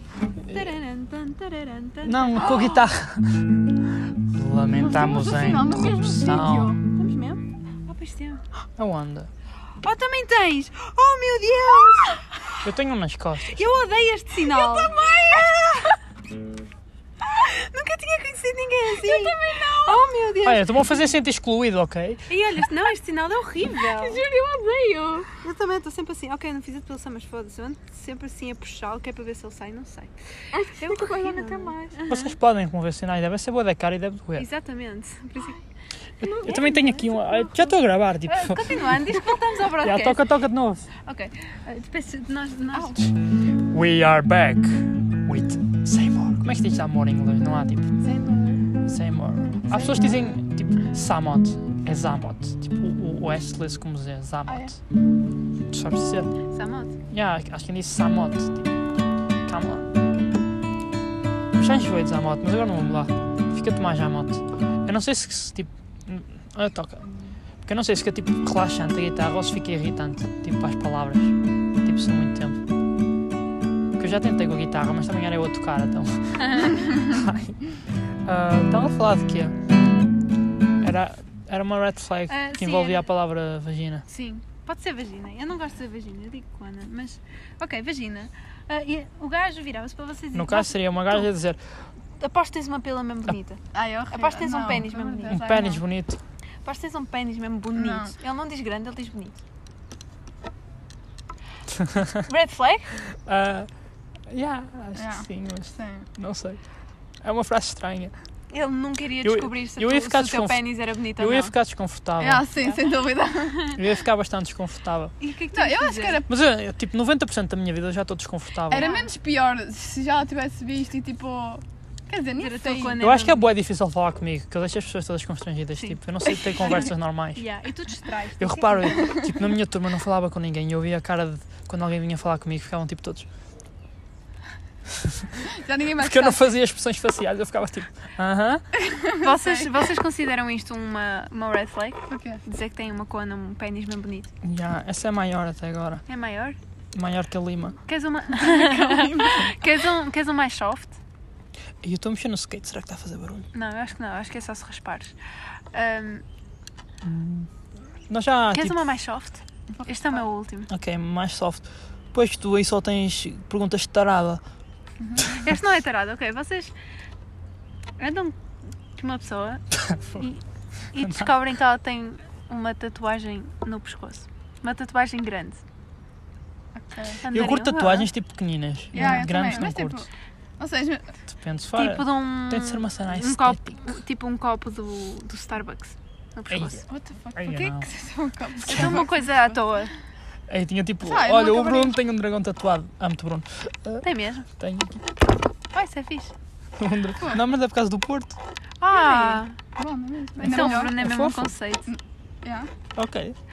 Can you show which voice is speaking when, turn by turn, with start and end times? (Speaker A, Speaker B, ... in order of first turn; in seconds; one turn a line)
Speaker A: 0.5-2.7
Speaker B: 2.0-3.6
Speaker C: 2.4-2.7
Speaker B: 4.2-6.8
Speaker C: 4.8-7.4
Speaker A: 7.0-8.4
Speaker B: 8.8-9.3
Speaker A: 9.8-12.6
Speaker B: 12.6-13.5
Speaker A: 13.5-15.9
Speaker C: 14.4-16.0
Speaker A: 17.2-21.0
Speaker C: 18.9-20.0
Speaker B: 20.4-22.3
Speaker A: 22.3-24.2
Speaker C: 23.8-25.4
Speaker A: 25.4-30.1
Speaker C: 30.5-32.0
Speaker A: 30.8-32.2
Speaker B: 32.1-34.5
Speaker A: 34.4-35.6
Speaker B: 36.2-39.1
Speaker A: 36.2-37.7
Speaker A: 38.2-40.3
Speaker B: 39.7-40.9
Speaker A: 41.0-43.0
Speaker C: 42.7-43.1
Speaker B: 43.5-47.9
Speaker C: 48.0-48.6
Speaker B: 48.9-54.8
Speaker C: 49.7-50.1
Speaker C: 54.5-54.7
Speaker B: 55.7-56.3
Speaker A: 56.5-56.9
Speaker B: 57.1-58.8
Speaker B: 59.4-59.9
Speaker B: 61.5-67.1
Speaker B: 67.6-72.6
Speaker B: 74.0-79.6
Speaker A: 76.4-77.1
Speaker B: 80.8-84.0
Speaker A: 82.3-83.1
Speaker A: 84.1-91.3
Speaker B: 90.3-91.6
Speaker A: 92.2-95.4
Speaker C: 93.7-95.8
Speaker B: 95.3-96.2
Speaker A: 96.6-99.4
Speaker C: 97.7-98.1
Speaker B: 101.8-102.1
Speaker A: 102.2-103.0
Speaker B: 103.2-103.7
Speaker B: 104.3-106.6
Speaker C: 105.0-106.1
Speaker B: 107.2-108.1
Speaker A: 108.5-111.5
Speaker B: 109.2-112.4
Speaker C: 112.2-113.8
Speaker B: 113.7-115.1
Speaker A: 115.2-116.2
Speaker C: 115.5-116.3
Speaker B: 116.3-118.9
Speaker C: 118.7-123.1
Speaker A: 118.7-119.1
Speaker A: 122.4-123.5
Speaker B: 123.0-127.4
Speaker A: 125.8-129.4
Speaker B: 128.4-133.3
Speaker B: 135.0-135.2
Speaker C: 135.3-136.4
Speaker B: 136.0-138.6
Speaker C: 138.7-139.8
Speaker A: 139.2-144.3
Speaker C: 142.1-142.4
Speaker B: 144.4-146.0
Speaker A: 146.1-146.6
Speaker B: 146.9-147.8
Speaker A: 147.9-150.9
Speaker C: 148.3-149.5
Speaker B: 151.8-153.5
Speaker A: 153.5-155.1
Speaker A: 155.7-156.2
Speaker B: 157.0-157.5
Speaker B: 158.1-158.8
Speaker A: 158.5-160.7
Speaker C: 159.7-160.2
Speaker B: 160.7-164.4
Speaker C: 165.0-165.3
Speaker A: 165.3-166.7
Speaker A: 168.0-168.3
Speaker A: 168.9-170.4
Speaker B: 169.8-170.2
Speaker A: 170.9-175.6
Speaker B: 171.0-171.3
Speaker C: 176.7-177.2
Speaker A: 177.2-178.1
Speaker B: 177.3-180.1
Speaker C: 178.9-181.2
Speaker A: 178.9-179.6
Speaker B: 181.3-183.8
Speaker A: 181.8-186.8
Speaker B: 186.5-187.8
Speaker C: 186.9-189.6
Speaker B: 188.6-189.0
Speaker A: 188.7-189.9
Speaker B: 190.5-195.0
Speaker C: 191.0-192.0
Speaker A: 194.0-194.4
Speaker A: 195.7-196.3
Speaker B: 196.8-198.4
Speaker A: 198.8-199.5
Speaker C: 198.9-201.0
Speaker B: 200.4-201.5
Speaker A: 200.4-201.9
Speaker C: 201.9-202.7
Speaker B: 202.9-203.3